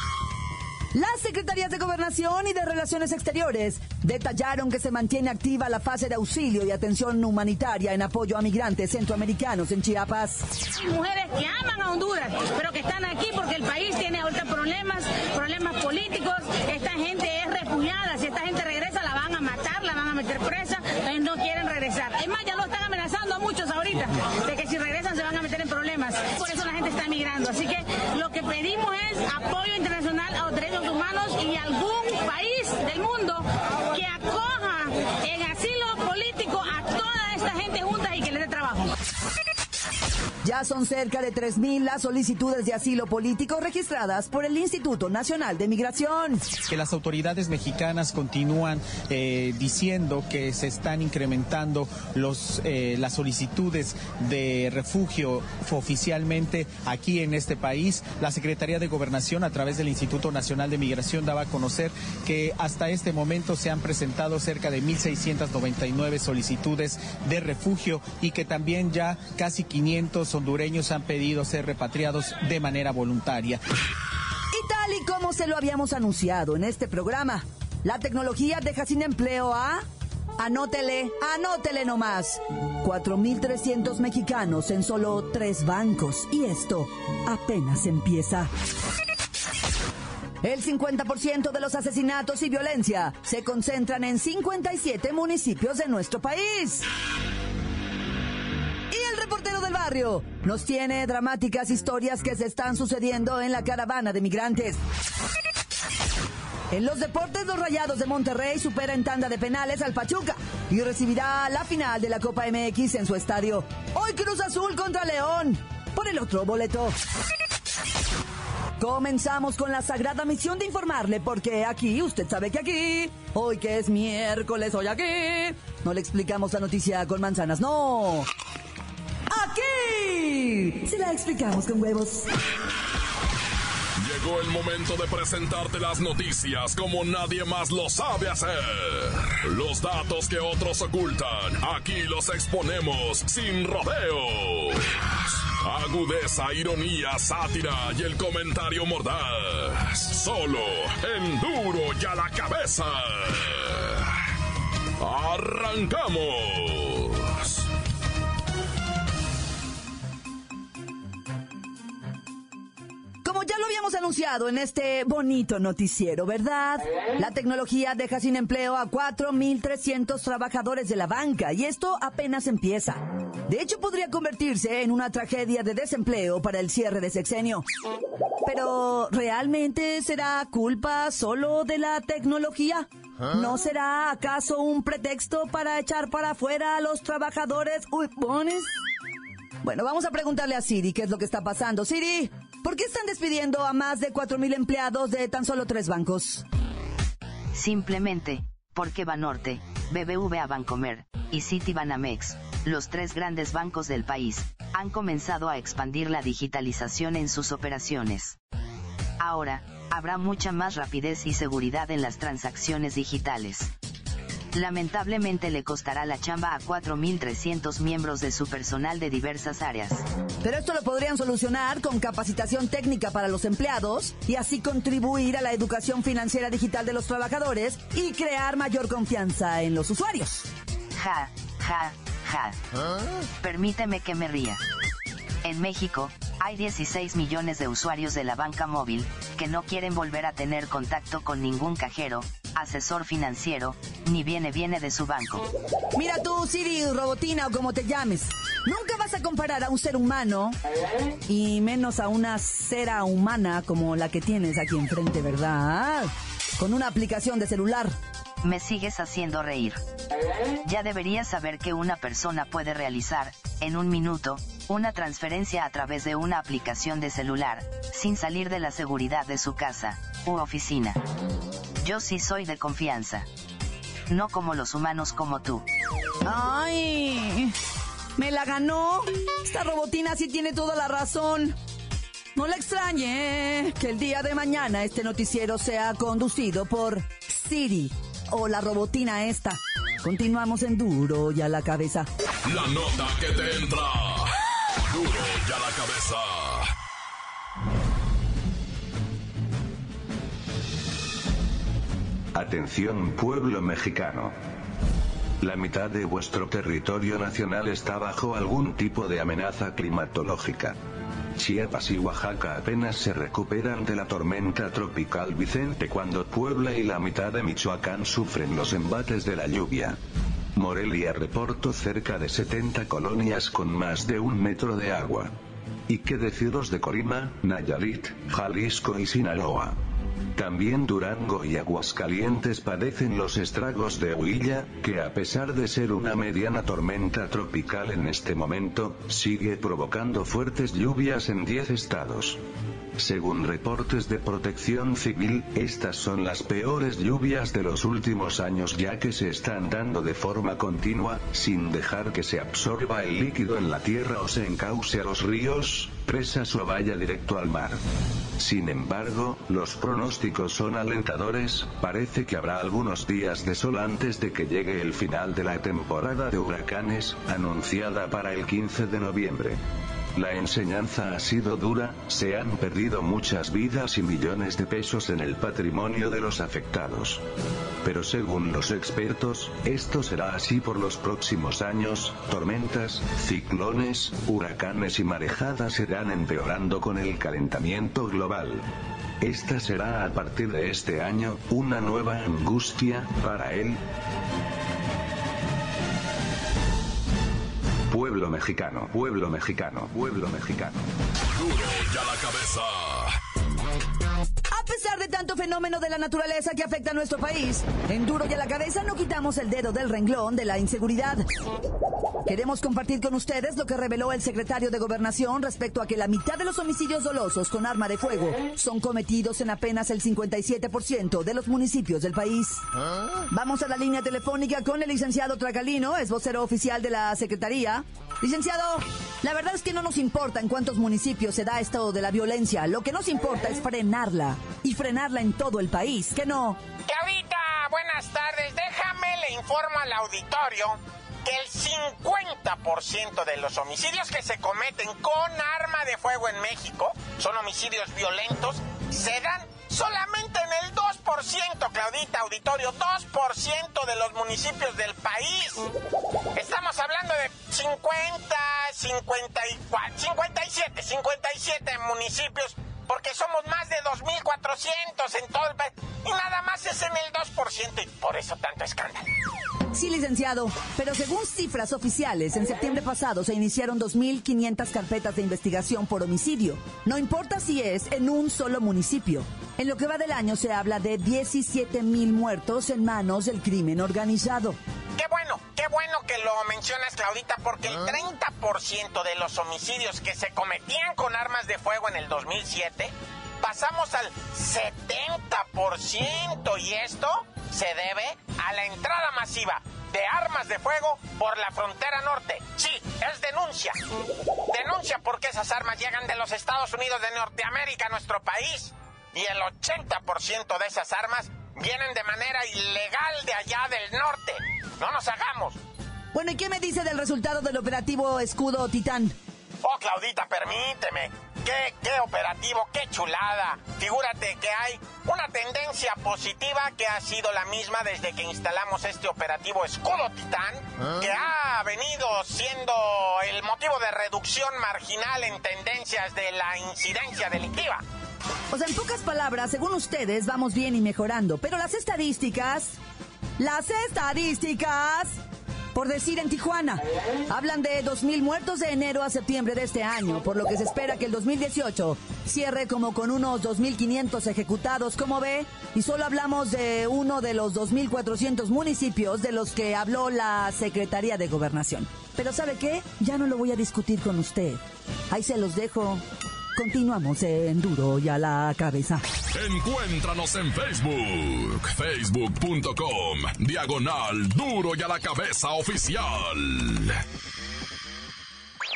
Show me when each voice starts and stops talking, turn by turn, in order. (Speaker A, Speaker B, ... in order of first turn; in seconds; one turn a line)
Speaker A: 0.9-10.4
Speaker B: 10.7-38.9
Speaker A: 40.4-46.4
Speaker C: 46.7-73.6
Speaker A: 74.5-79.8
Speaker A: 80.4-88.5
Speaker A: 90.4-96.9
Speaker A: 98.9-104.8
Speaker A: 106.7-116.9
Speaker A: 118.8-128.3
Speaker A: 129.3-132.3
Speaker D: 134.0-154.1
Speaker D: 155.0-157.6
Speaker A: 163.2-177.6
Speaker A: 178.4-188.7
Speaker A: 189.6-196.4
Speaker E: 197.5-208.3
Speaker E: 209.2-213.7
Speaker E: 214.5-220.0
Speaker A: 220.4-230.5
Speaker E: 230.9-232.6
Speaker E: 233.4-234.6
Speaker E: 235.4-245.5
Speaker A: 245.9-250.6
Speaker A: 251.3-257.9
Speaker E: 258.4-259.8
Speaker E: 260.6-271.0
Speaker E: 271.8-273.2
Speaker E: 274.1-275.6
Speaker A: 276.2-277.5
Speaker A: 278.2-281.6
Speaker A: 282.3-292.1
Speaker D: 292.4-294.4
Speaker D: 294.9-296.7
Speaker F: 302.3-304.3
Speaker F: 305.4-310.8
Speaker F: 311.4-320.0
Speaker F: 320.6-325.3
Speaker F: 325.9-329.8
Speaker F: 330.4-342.4
Speaker F: 343.0-357.8
Speaker F: 358.4-369.6
Speaker F: 370.1-377.2
Speaker F: 377.8-388.6
Speaker F: 389.2-393.8
Speaker F: 397.9-400.8
Speaker D: 401.4-403.2
Speaker A: 404.5-411.2
Speaker A: 412.2-422.6
Speaker A: 423.3-436.6
Speaker G: 436.9-455.7
Speaker G: 456.3-469.1
Speaker A: 469.7-484.6
Speaker G: 484.9-503.8
Speaker G: 504.5-515.6
Speaker A: 516.1-519.1
Speaker G: 519.6-537.8
Speaker A: 538.5-542.8
Speaker A: 543.4-545.1
Speaker A: 545.7-566.0
Speaker A: 566.5-569.0
Speaker D: 569.3-577.0